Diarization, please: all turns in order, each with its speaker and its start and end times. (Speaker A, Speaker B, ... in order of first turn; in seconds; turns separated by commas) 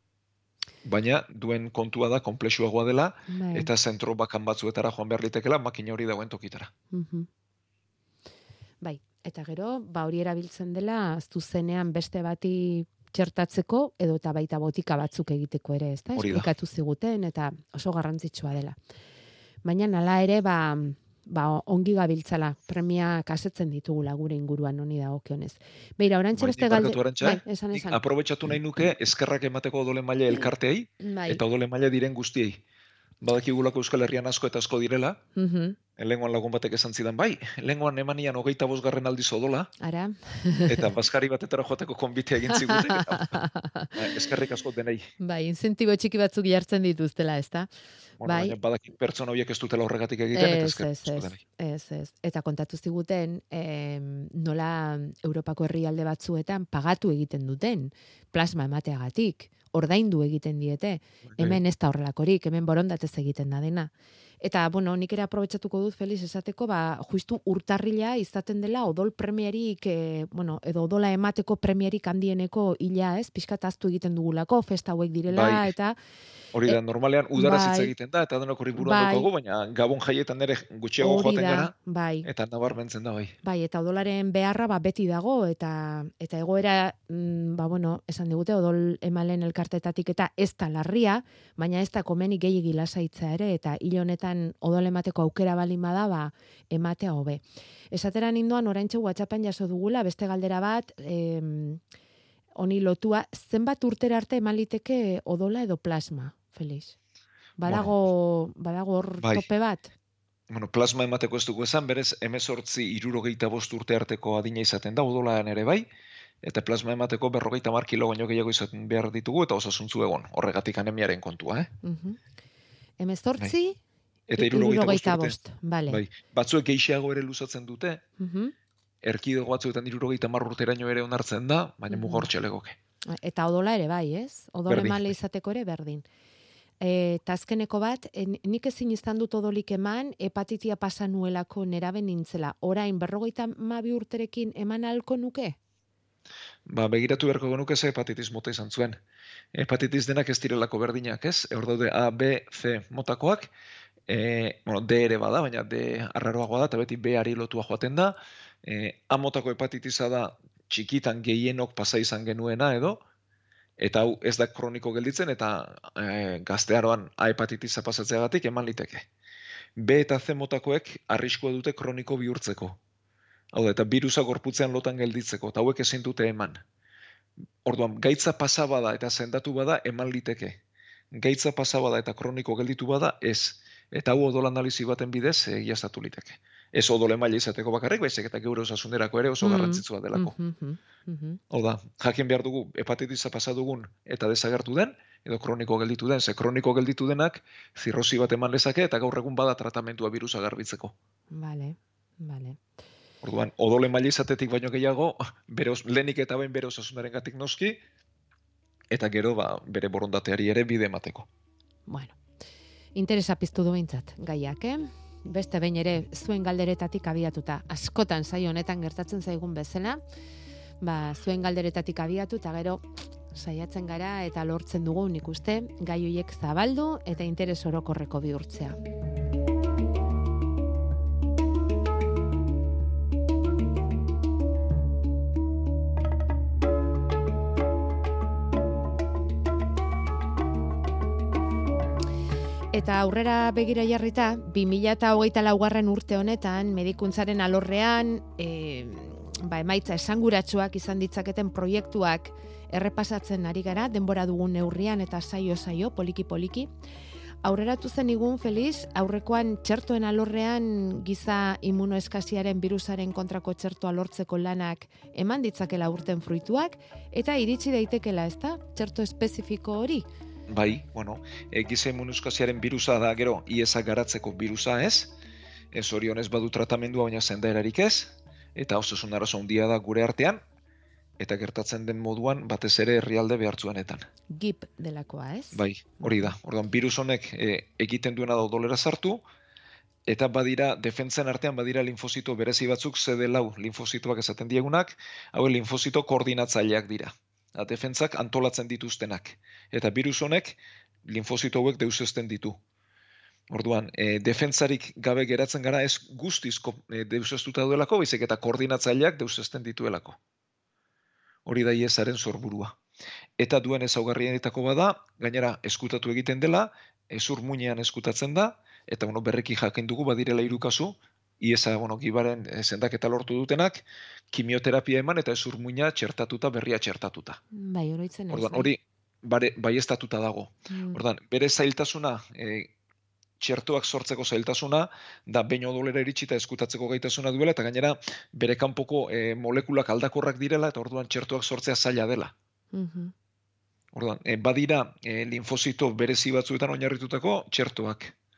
Speaker A: 0.8-6.7, Speaker B: 3.3-3.7, Speaker B: 6.9-7.3, Speaker B: 8.8-18.8, Speaker A: 16.2-16.5, Speaker B: 19.6-28.0, Speaker A: 26.3-32.6, Speaker B: 31.0-31.4, Speaker A: 33.2-35.2, Speaker B: 35.4-35.8, Speaker A: 36.0-39.7, Speaker B: 39.8-40.9, Speaker A: 40.7-43.3, Speaker B: 42.5-44.2, Speaker A: 44.0-45.1, Speaker B: 45.2-47.7, Speaker A: 48.2-51.4, Speaker B: 48.2-48.6, Speaker B: 50.3-76.0, Speaker A: 61.3-61.6, Speaker A: 75.3-75.7, Speaker A: 76.5-83.3, Speaker B: 77.3-77.9, Speaker B: 78.8-79.3, Speaker B: 81.0-82.3, Speaker B: 83.4-101.8, Speaker B: 102.6-107.0, Speaker B: 107.6-109.9, Speaker A: 107.7-107.9, Speaker A: 109.2-109.5, Speaker A: 110.5-115.9, Speaker A: 116.4-121.7, Speaker B: 121.8-122.2, Speaker B: 123.0-123.8, Speaker A: 124.3-125.4, Speaker B: 124.4-126.0, Speaker A: 125.9-128.0, Speaker B: 128.2-128.5, Speaker A: 129.0-132.8, Speaker B: 131.9-132.3, Speaker B: 133.1-136.1, Speaker A: 134.7-135.2, Speaker B: 136.8-145.6, Speaker A: 146.7-149.0, Speaker A: 149.5-153.5, Speaker A: 154.1-163.0, Speaker A: 163.8-169.1, Speaker A: 169.8-172.8, Speaker A: 173.5-176.6, Speaker A: 177.7-180.6, Speaker A: 181.1-190.3, Speaker B: 189.4-191.4, Speaker A: 191.5-200.9, Speaker B: 201.3-202.6, Speaker A: 203.2-207.8, Speaker A: 208.9-211.3, Speaker B: 211.9-212.2, Speaker B: 212.9-220.0, Speaker B: 220.8-228.8, Speaker B: 242.7-256.7, Speaker B: 257.4-270.1, Speaker A: 270.5-275.1, Speaker A: 275.7-280.4, Speaker A: 281.2-284.1, Speaker B: 284.3-286.3, Speaker A: 285.5-289.2, Speaker A: 290.1-302.6, Speaker A: 303.5-310.2, Speaker A: 311.5-312.8, Speaker A: 313.4-327.4, Speaker B: 327.5-328.7, Speaker A: 328.3-332.7, Speaker B: 330.7-331.0, Speaker A: 333.4-342.3, Speaker B: 342.7-343.1, Speaker A: 343.9-348.1